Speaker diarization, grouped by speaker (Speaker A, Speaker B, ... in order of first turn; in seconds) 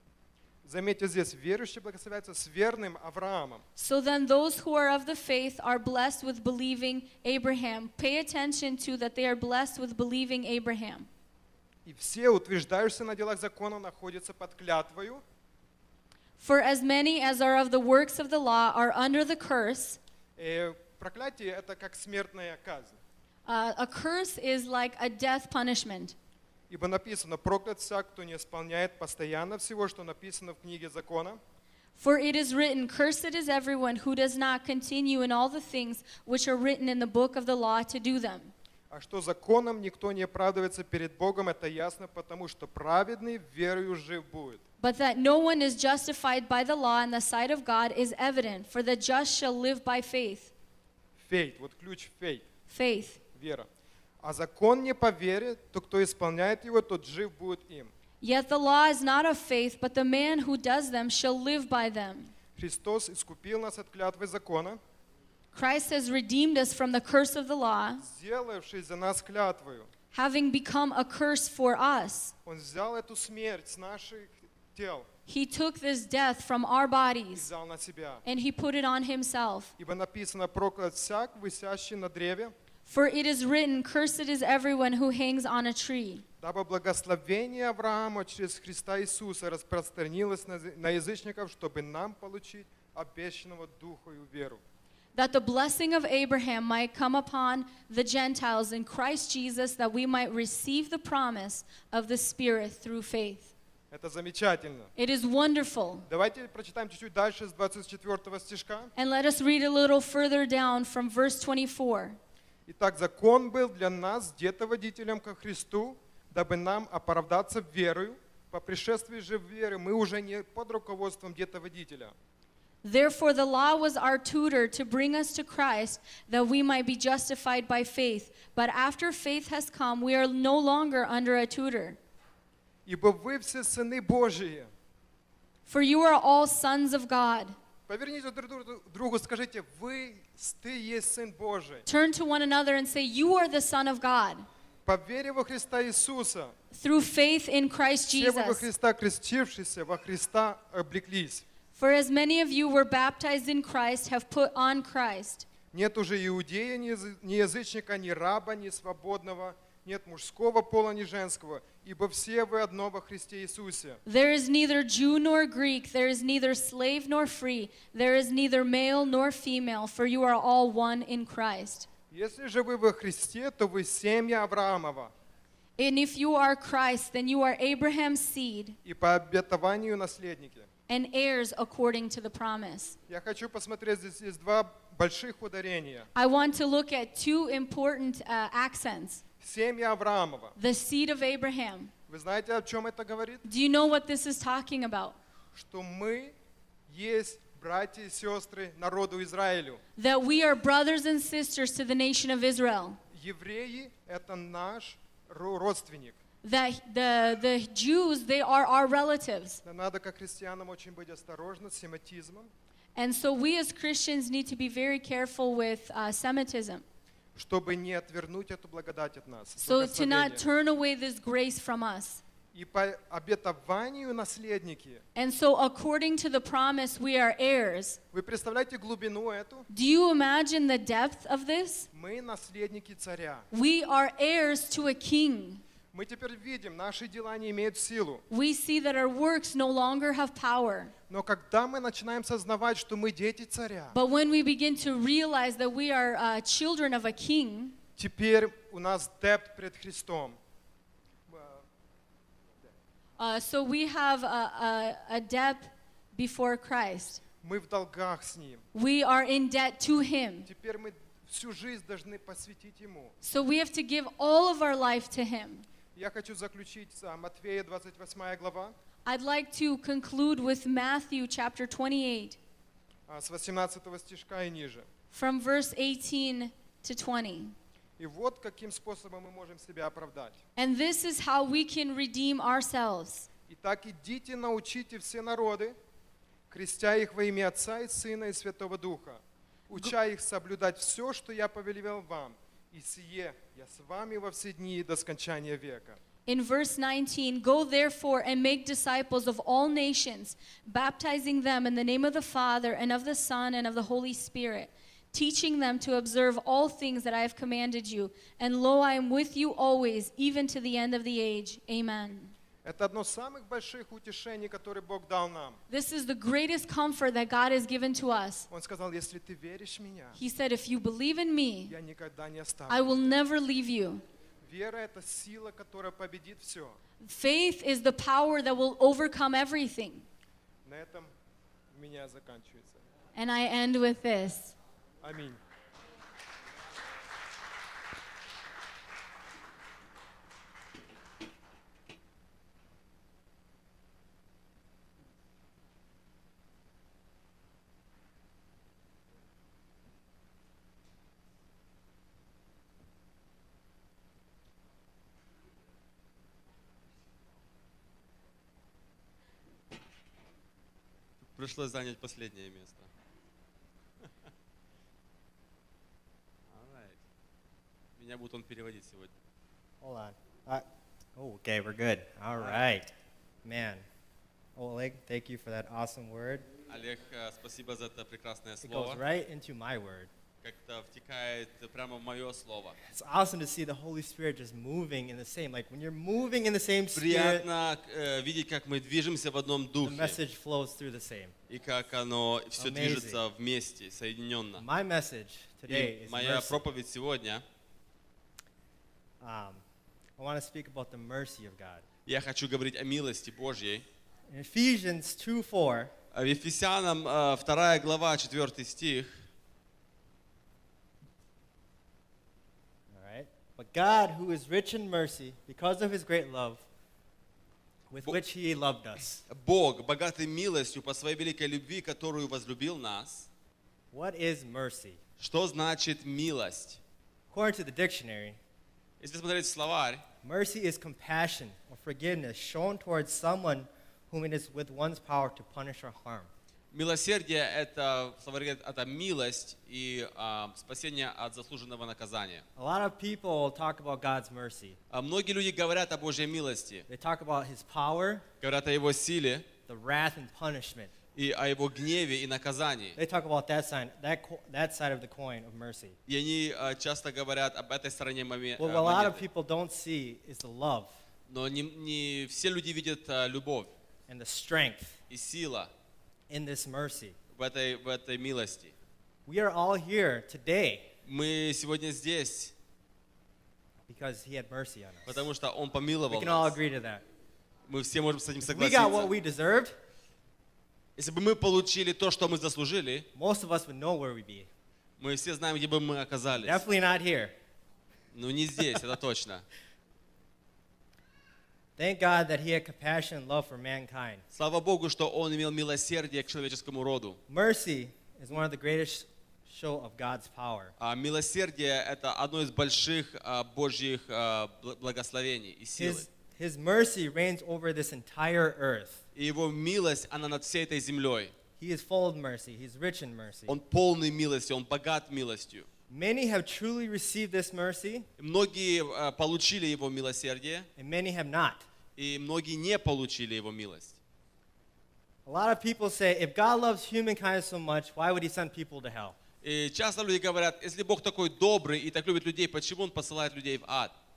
Speaker A: 0.6-3.6, 11.8-15.2, 20.4-23.0, 26.7-31.4, 38.9-44.6, 51.2-52.5, 53.3-53.7, 54.2-57.9, 62.5-64.8, 68.0-69.9, 72.5-75.1, 77.3-78.2, 79.8-82.5, 86.4-94.6, 103.9-104.9, 106.1-108.9, 112.7-122.1, 132.8-134.7, 137.9-141.8, 144.8-146.5, 148.1-151.4, 155.7-164.0, 172.1-175.1, 178.8-180.7, 183.1-186.1, 189.4-190.5, 192.1-193.4, 195.5-196.3, 196.9-199.8, 203.1-206.2, 209.6-212.5, 217.3-220.4, 222.5-225.0, 228.1-229.7, 231.9-233.5, 235.9-238.2, 241.1-243.9, 248.0-250.4, 251.3-251.6, 257.4-258.6, 260.4-263.1, 265.9-268.7, 273.1-274.9, 278.0-280.4, 283.5-285.8, 286.5-296.0, 312.6-315.6, 318.5-320.2, 321.7-323.1, 324.4-326.8, 330.6-331.1, 331.7-332.8, 335.0-335.4
Speaker B: 3.8-11.1, 16.4-20.0, 23.4-26.1, 31.9-38.5, 44.8-50.5, 52.7-53.2, 58.2-62.3, 65.5-68.0, 70.1-72.3, 75.3-77.5, 78.2-79.7, 82.8-86.2, 95.1-103.5, 105.0-106.0, 109.0-112.2, 122.8-132.0, 135.7-137.6, 141.9-144.4, 146.7-148.6, 151.7-155.4, 164.1-171.9, 175.8-178.8, 180.9-183.0, 186.1-189.2, 190.6-191.9, 193.4-195.2, 199.9-203.0, 206.4-209.6, 212.9-216.8, 219.6-222.2, 225.1-228.0, 229.7-231.9, 233.5-235.6, 238.3-240.9, 243.9-247.8, 253.2-257.2, 258.7-260.5, 263.2-265.7, 269.0-272.4, 275.1-277.5, 280.6-283.3, 296.2-312.3, 315.7-318.5, 320.1-321.8, 322.7-324.0, 327.0-330.1, 333.1-334.6
Speaker C: 361.3-362.9, 366.5-367.0, 368.0-369.1, 372.3-372.6, 376.7-379.0, 380.4-382.8, 386.9-390.2, 391.5-394.6, 395.7-397.4, 402.1-403.9, 406.1-409.3, 419.3-423.3, 425.2-426.8, 429.0-430.0, 436.7-442.4, 444.9-446.9, 448.4-449.5, 451.1-453.0, 456.1-459.2, 461.3-463.7, 465.1-465.7, 467.3-468.7, 471.1-472.5, 475.1-476.6, 477.7-479.1, 480.9-483.1, 485.0-486.6, 488.1-489.4, 494.3-497.2, 500.8-506.1, 509.1-511.3, 513.5-515.7, 518.2-520.7, 522.0-524.0, 529.4-533.9
Speaker D: 369.8-372.9, 373.4-373.9, 374.6-376.5, 378.6-380.1, 382.9-387.4, 389.8-391.3, 392.6-393.2, 394.6-396.6, 399.2-399.6, 400.2-401.8, 404.3-405.9, 412.9-416.6, 417.9-419.2, 423.9-425.0, 427.3-428.4, 430.2-436.3, 442.6-444.8, 446.9-448.2, 449.7-450.9, 453.0-456.0, 458.6-460.9, 464.1-465.0, 466.3-467.2, 469.2-470.9, 473.9-475.3, 476.1-477.0, 478.4-479.7, 483.1-484.5, 486.3-487.3, 491.8-494.2, 497.3-500.7, 505.8-509.0, 511.6-513.5, 515.9-518.1, 520.8-521.6, 525.2-529.2